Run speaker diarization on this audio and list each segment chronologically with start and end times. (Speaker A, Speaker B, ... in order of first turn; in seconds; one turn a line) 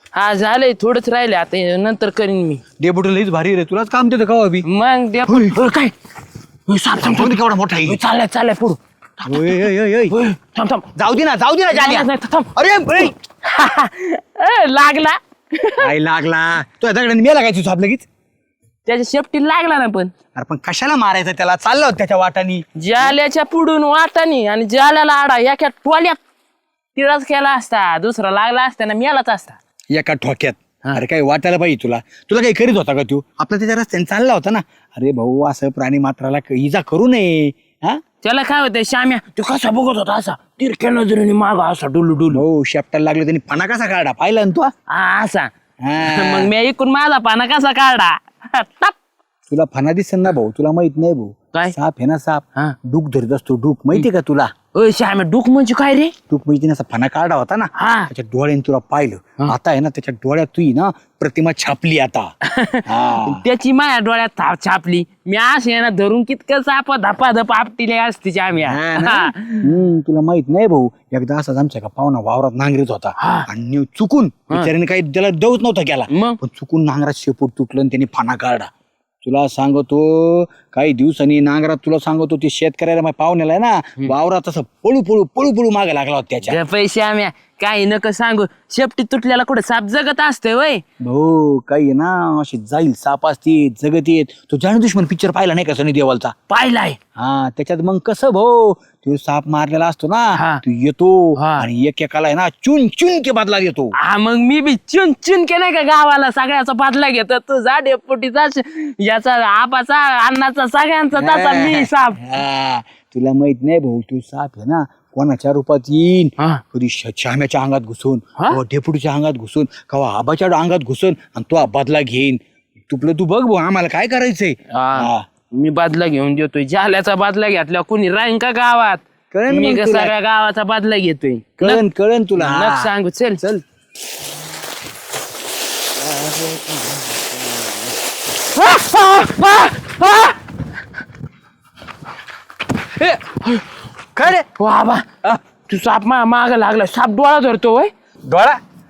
Speaker A: 0.1-2.6
Speaker B: 2.8-4.7
Speaker A: 4.7-5.9
Speaker B: 5.3-5.6
Speaker A: 6.7-9.5
Speaker B: 7.0-8.0
Speaker B: 9.3-10.2
Speaker A: 10.1-10.9
Speaker B: 10.9-13.1
Speaker A: 11.7-12.5
Speaker A: 13.5-15.9
Speaker B: 15.8-18.1
Speaker A: 18.9-20.1
Speaker B: 20.4-23.1
Speaker A: 22.8-26.2
Speaker A: 26.9-29.6
Speaker B: 29.9-38.0
Speaker A: 38.2-42.4
Speaker B: 42.3-44.7
Speaker A: 44.9-45.5
Speaker B: 45.8-46.5
Speaker A: 46.0-48.9
Speaker B: 49.5-54.5
Speaker A: 54.7-56.1
Speaker B: 56.3-62.3
Speaker A: 57.8-58.1
Speaker A: 62.5-69.7
Speaker B: 62.9-63.4
Speaker B: 68.6-78.7
Speaker A: 73.2-73.5
Speaker A: 76.1-76.4
Speaker B: 79.2-86.6
Speaker A: 86.5-90.8
Speaker B: 91.0-96.3
Speaker A: 96.5-97.0
Speaker B: 97.2-103.9
Speaker A: 100.4-100.6
Speaker A: 101.4-101.7
Speaker A: 104.0-112.2
Speaker B: 111.2-125.2
Speaker A: 124.7-131.8
Speaker B: 129.3-130.1
Speaker B: 131.6-133.6
Speaker A: 132.4-133.5
Speaker B: 136.1-137.8
Speaker A: 138.6-140.3
Speaker A: 143.0-143.6
Speaker B: 144.2-144.4
Speaker A: 144.5-145.1
Speaker A: 145.7-147.9